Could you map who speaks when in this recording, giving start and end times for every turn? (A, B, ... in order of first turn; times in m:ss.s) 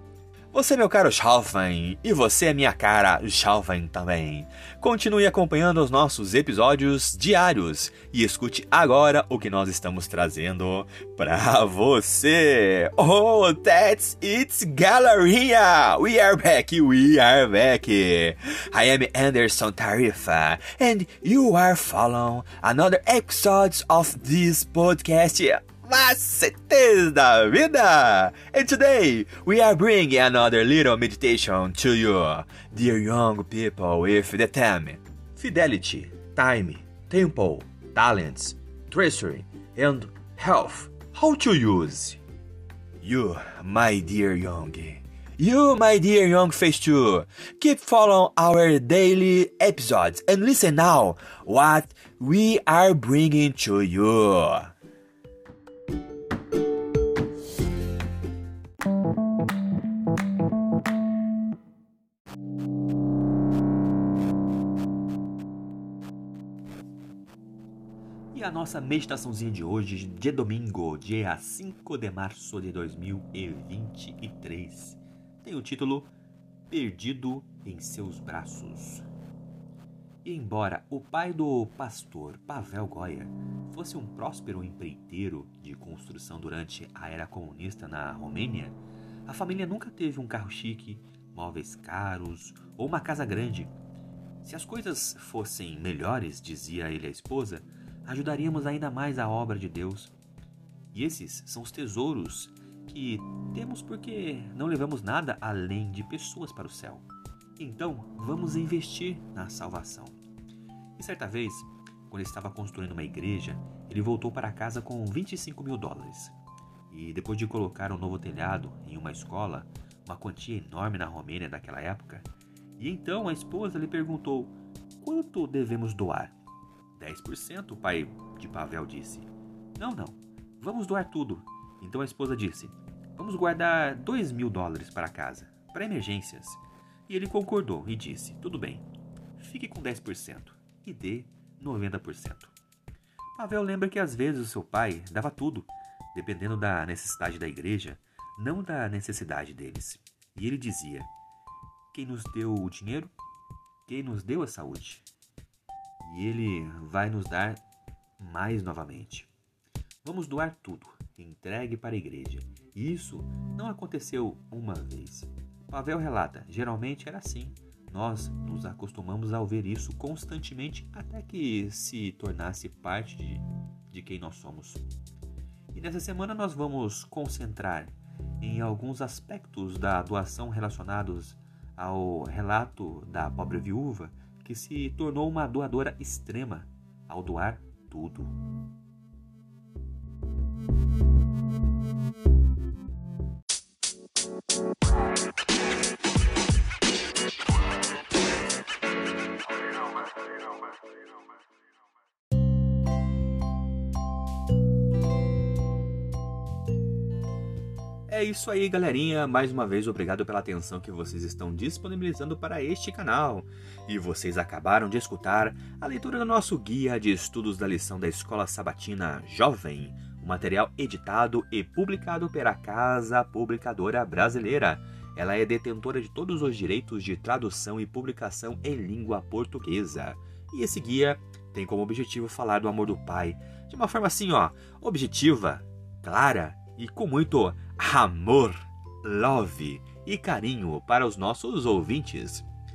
0:00.5-0:42.2 A
0:43.0-0:54.7 A
1:08.3-1:16.1 A
1:16.7-1:19.0 A
1:20.2-1:33.7 A
1:34.4-1:40.1 A
1:40.9-1:47.1 A
1:47.6-1:50.2 A
1:51.0-1:56.3 A
1:56.9-2:06.3 A
2:06.9-2:18.8 A
2:19.4-2:22.5 A
2:23.3-2:31.1 A
2:31.9-2:33.1 A
2:33.8-2:35.0 A
2:36.0-2:37.6 A
2:38.2-2:39.3 A
2:40.0-2:54.8 A
2:55.7-3:08.4 A
3:28.1-4:02.4 A